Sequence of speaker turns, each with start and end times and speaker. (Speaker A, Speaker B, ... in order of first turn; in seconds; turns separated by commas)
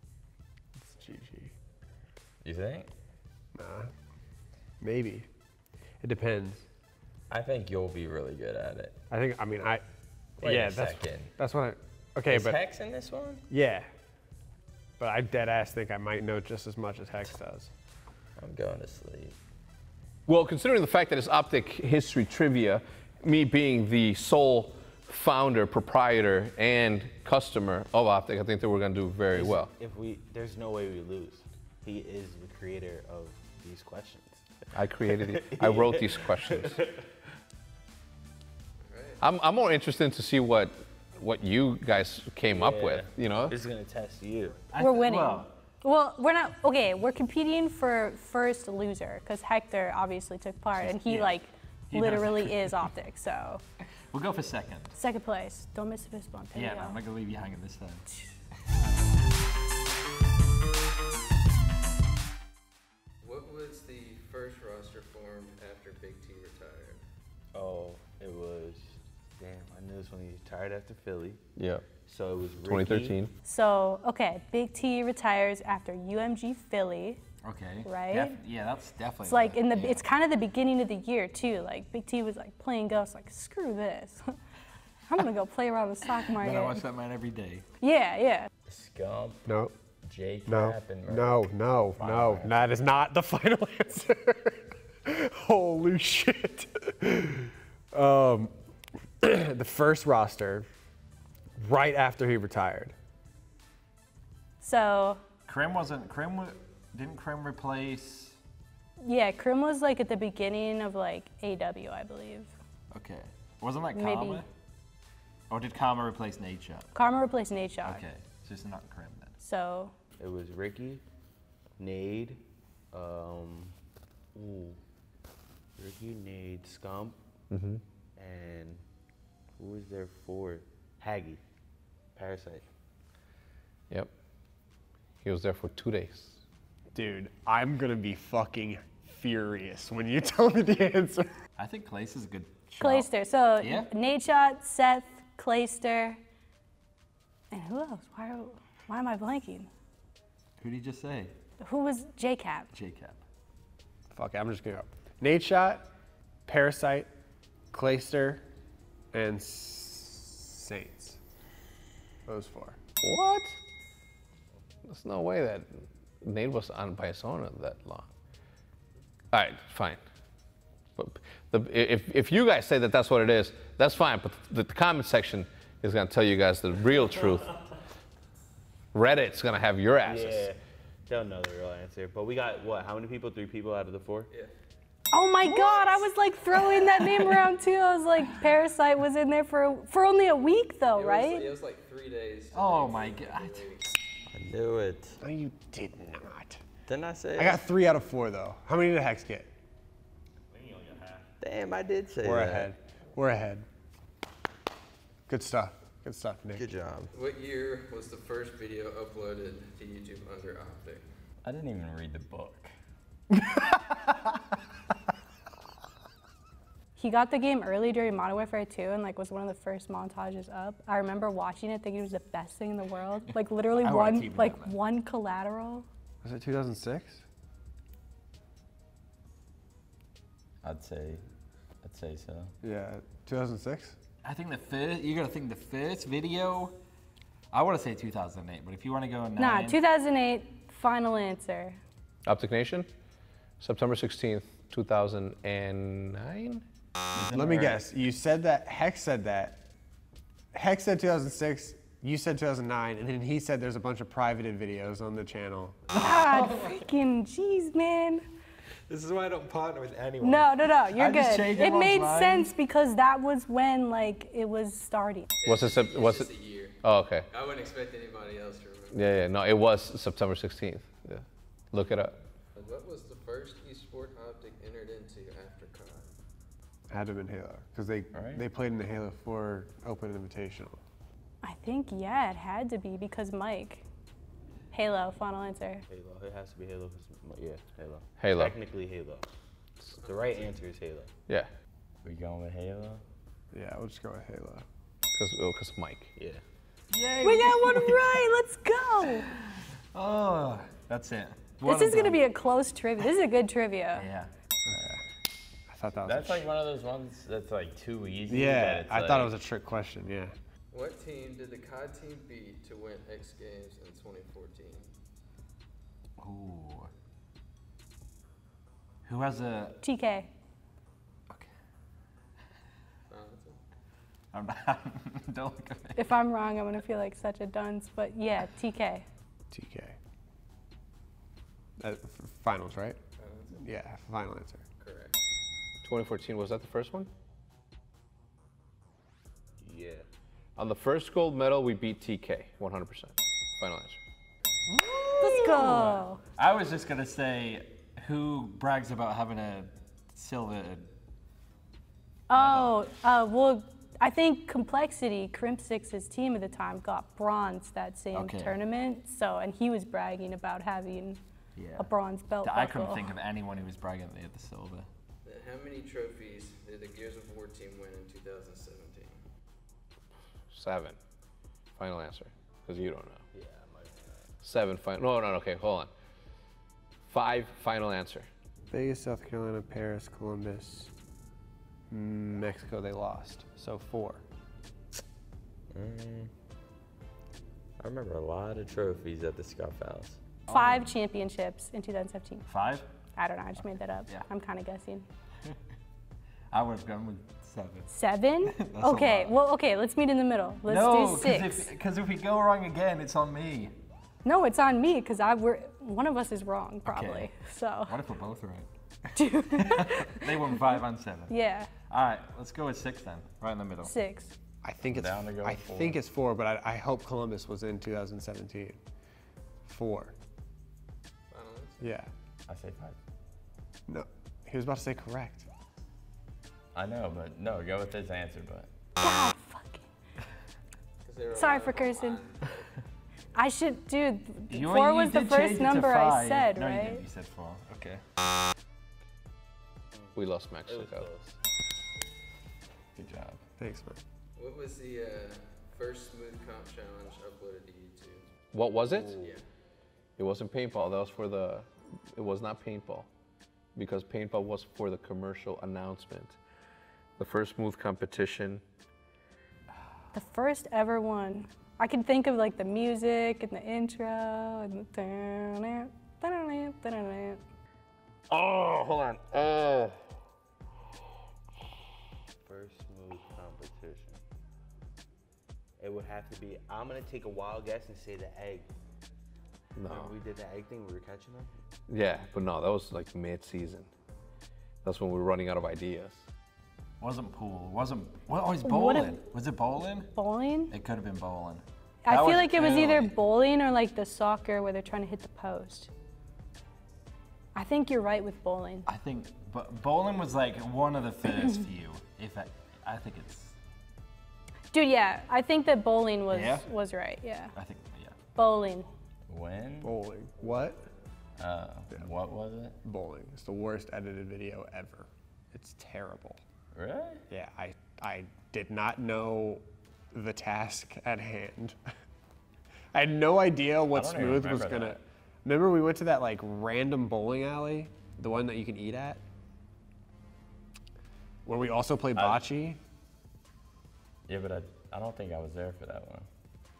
Speaker A: 0.8-1.5, Speaker B: 2.4-2.9, Speaker A: 3.5-3.9, Speaker A: 4.8-5.3, Speaker A: 6.0-6.7, Speaker B: 7.3-9.0, Speaker A: 9.1-9.8, Speaker B: 10.4-11.3, Speaker A: 10.4-12.6, Speaker B: 12.3-13.4, Speaker A: 13.5-13.9, Speaker A: 15.0-17.7, Speaker B: 18.4-19.4, Speaker C: 20.3-29.7, Speaker D: 29.3-34.5, Speaker C: 34.7-36.8, Speaker D: 35.0-37.0, Speaker E: 38.9-39.2, Speaker C: 39.2-43.6, Speaker D: 42.4-44.6, Speaker F: 44.7-45.5, Speaker G: 44.8-53.6, Speaker F: 50.8-51.3, Speaker F: 51.9-52.8, Speaker F: 54.1-55.0, Speaker G: 55.0-57.0, Speaker F: 56.5-58.0, Speaker E: 63.2-67.0, Speaker D: 67.5-71.4, Speaker C: 71.6-71.9, Speaker D: 72.0-73.2, Speaker C: 72.6-73.3, Speaker G: 73.5-77.2, Speaker F: 77.4-80.1, Speaker G: 77.8-78.4, Speaker G: 79.2-84.3, Speaker G: 85.1-86.8, Speaker F: 86.3-87.7, Speaker G: 87.8-88.5, Speaker B: 88.7-89.5, Speaker A: 89.5-89.8, Speaker B: 90.0-91.4, Speaker A: 90.5-98.5, Speaker B: 92.0-92.7, Speaker A: 99.2-100.7, Speaker A: 101.6-102.9, Speaker G: 104.6-105.2, Speaker F: 105.5-108.4, Speaker G: 109.0-112.5, Speaker F: 112.9-114.5, Speaker G: 113.9-114.5, Speaker F: 115.5-116.9, Speaker G: 116.9-118.0, Speaker F: 117.8-119.3, Speaker G: 119.4-119.9, Speaker D: 120.2-121.0, Speaker D: 121.8-123.7, Speaker D: 124.3-124.8, Speaker D: 125.8-127.2, Speaker C: 127.5-127.8, Speaker D: 128.2-128.8, Speaker D: 129.6-131.4, Speaker D: 132.2-132.7, Speaker C: 135.2-136.4, Speaker A: 136.9-141.3, Speaker F: 141.6-143.9, Speaker G: 142.8-146.2, Speaker G: 147.5-149.7, Speaker F: 150.6-151.3, Speaker G: 151.6-152.7, Speaker F: 152.7-153.2, Speaker A: 154.1-155.9, Speaker A: 156.5-157.1, Speaker A: 157.7-158.4, Speaker A: 159.1-161.2, Speaker A: 162.3-162.8, Speaker C: 163.0-163.6, Speaker C: 164.9-168.1, Speaker C: 169.3-170.0, Speaker C: 171.0-177.5, Speaker C: 178.9-180.5, Speaker D: 180.0-184.3, Speaker G: 185.1-191.5, Speaker E: 190.9-193.8, Speaker F: 192.5-193.7, Speaker B: 194.3-195.2, Speaker A: 195.2-196.6, Speaker B: 196.9-197.6, Speaker A: 197.4-199.5, Speaker D: 200.5-201.3, Speaker B: 201.4-202.7, Speaker A: 202.2-203.7, Speaker A: 205.3-206.7, Speaker B: 206.6-207.1, Speaker E: 207.1-211.1, Speaker B: 211.4-212.7, Speaker G: 217.0-225.9, Speaker F: 223.7-224.8, Speaker A: 226.2-227.2, Speaker B: 230.6-231.2, Speaker B: 231.8-232.5, Speaker A: 232.6-234.0, Speaker F: 234.2-236.8, Speaker F: 237.5-239.8, Speaker G: 239.4-241.8, Speaker C: 242.2-242.9, Speaker C: 243.6-246.6, Speaker B: 247.2-247.8, Speaker A: 247.2-249.7, Speaker A: 250.5-255.8, Speaker F: 255.9-256.8, Speaker G: 256.0-258.2, Speaker F: 258.9-262.5, Speaker G: 260.2-265.3, Speaker E: 265.4-269.0, Speaker C: 265.5-267.3, Speaker C: 268.9-272.2, Speaker E: 272.6-276.1, Speaker A: 276.9-280.8, Speaker B: 278.1-278.4, Speaker G: 281.4-283.9, Speaker G: 284.7-285.9, Speaker D: 285.9-289.3, Speaker C: 288.2-288.6, Speaker E: 289.9-290.6, Speaker D: 290.0-291.1, Speaker B: 292.0-293.0, Speaker A: 293.5-294.7, Speaker C: 295.1-296.1, Speaker D: 296.2-296.4, Speaker F: 296.9-298.3, Speaker G: 297.2-299.3, Speaker F: 299.3-302.2, Speaker G: 301.6-304.1, Speaker F: 304.0-304.8, Speaker A: 304.6-305.1, Speaker A: 305.7-306.5, Speaker B: 306.0-309.4, Speaker A: 308.3-310.3, Speaker E: 310.7-314.9, Speaker F: 316.2-316.9, Speaker F: 319.1-319.8, Speaker G: 319.8-320.3, Speaker E: 323.1-323.6, Speaker F: 324.3-326.1, Speaker G: 326.0-329.1, Speaker A: 329.5-330.0, Speaker A: 331.8-333.0, Speaker E: 333.2-333.7, Speaker A: 333.5-334.6, Speaker E: 334.8-335.2, Speaker C: 335.8-337.1, Speaker D: 339.6-340.1, Speaker C: 340.6-344.0, Speaker F: 344.7-350.9, Speaker G: 345.2-346.2, Speaker G: 352.3-361.2, Speaker F: 352.3-352.8, Speaker F: 358.1-358.6, Speaker F: 361.6-361.9, Speaker G: 361.8-363.1, Speaker F: 362.4-364.9, Speaker E: 365.2-369.2, Speaker C: 370.5-371.0, Speaker C: 371.8-373.2, Speaker D: 373.3-374.2, Speaker C: 374.4-375.9, Speaker C: 377.1-378.3, Speaker A: 378.7-380.9, Speaker A: 381.9-384.2, Speaker B: 385.7-386.3, Speaker B: 387.8-390.2, Speaker F: 390.5-390.9, Speaker G: 390.5-392.4, Speaker F: 392.5-392.9, Speaker G: 393.1-395.1, Speaker F: 393.6-394.3, Speaker F: 396.5-397.9, Speaker G: 397.9-401.7, Speaker F: 398.5-399.4, Speaker F: 400.7-403.8, Speaker G: 404.2-408.0, Speaker F: 406.9-407.3, Speaker F: 407.9-411.3, Speaker G: 409.2-410.6, Speaker G: 411.3-411.7, Speaker F: 411.9-413.9, Speaker G: 413.8-414.3, Speaker A: 414.6-418.8, Speaker B: 414.8-416.0, Speaker A: 419.7-420.1, Speaker E: 421.3-422.0, Speaker A: 421.8-422.1, Speaker B: 422.5-423.0, Speaker A: 423.9-425.5, Speaker B: 426.8-428.7, Speaker G: 429.0-429.9, Speaker E: 431.0-432.8, Speaker G: 431.4-432.2, Speaker G: 433.4-437.0, Speaker F: 434.5-438.0, Speaker D: 439.9-441.4, Speaker C: 440.1-441.1, Speaker B: 442.9-443.4, Speaker A: 443.6-444.0, Speaker E: 444.4-448.3, Speaker C: 448.5-449.1, Speaker D: 448.8-449.4, Speaker E: 449.2-449.4, Speaker C: 450.2-453.1, Speaker C: 453.8-456.4, Speaker C: 457.2-458.6, Speaker G: 460.1-467.4, Speaker C: 468.3-469.9, Speaker D: 472.4-474.2, Speaker D: 475.8-478.7, Speaker C: 479.8-480.1, Speaker D: 479.9-481.5, Speaker C: 481.9-483.9, Speaker C: 484.8-486.2, Speaker F: 487.0-490.1, Speaker G: 488.6-489.2, Speaker G: 490.1-490.7, Speaker F: 490.7-493.1, Speaker G: 492.0-495.9, Speaker G: 497.6-498.9, Speaker F: 498.9-503.6, Speaker G: 504.7-507.5, Speaker F: 506.3-506.7, Speaker F: 507.5-508.2, Speaker G: 508.4-508.9, Speaker B: 509.3-509.9, Speaker A: 509.8-510.8, Speaker B: 511.4-512.8, Speaker A: 512.8-516.4, Speaker B: 516.8-517.2, Speaker A: 517.3-521.8, Speaker A: 522.9-529.2, Speaker B: 523.9-525.0, Speaker A: 531.5-532.8, Speaker B: 532.2-532.5, Speaker B: 534.3-536.3